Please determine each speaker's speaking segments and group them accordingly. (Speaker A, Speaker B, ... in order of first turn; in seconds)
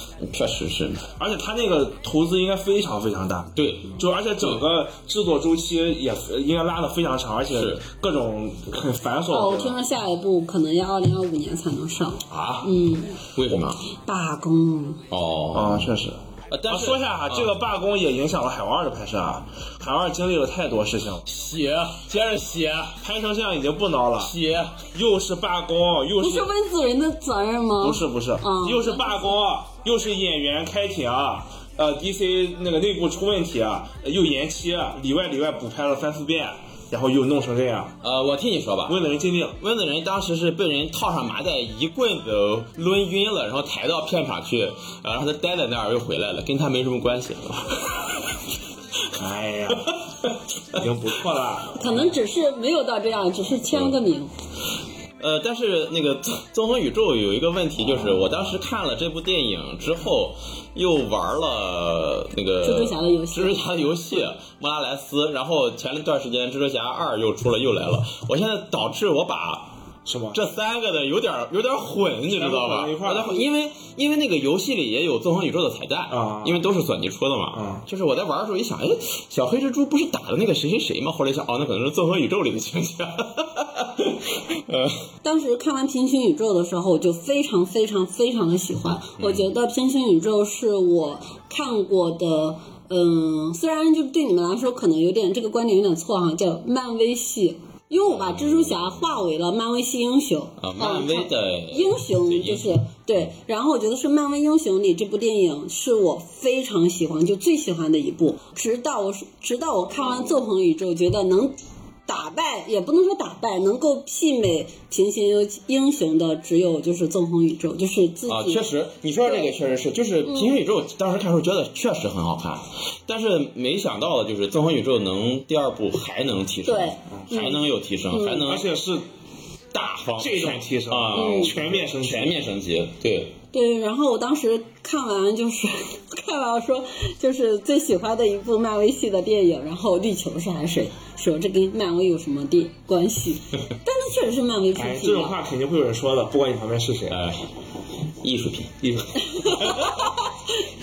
Speaker A: 0.2-1.1, 3.5-4.6, 7.5-7.8, 12.3-12.7, 13.2-13.8, 15.1-15.9, 16.5-17.5, 21.2-23.0, 24.2-24.9, 38.0-39.0, 39.6-47.7, 55.2-69.7, 70.3-85.0, 89.2-89.5, 98.0-99.1, 100.6-102.8, 118.3-128.7, 129.7-133.3, 147.1-147.5, 148.2-148.8
Speaker B: 1.2-9.8, 15.5-16.2, 16.7-21.3, 23.0-24.3, 24.9-26.5, 27.8-38.0, 38.9-39.6, 49.1-50.0, 50.7-52.0, 70.0-70.4, 72.3-73.4, 76.1-76.6, 77.5-77.8, 128.4-129.0, 130.2-132.4, 144.8-147.2, 148.8-149.8
Speaker C: 9.3-13.2, 13.9-15.0, 26.2-29.4, 51.8-54.3, 62.6-63.6, 85.2-111.5, 112.1-118.6, 119.2-119.5, 120.3-120.5, 126.6-128.4, 131.1-131.5, 133.5-145.3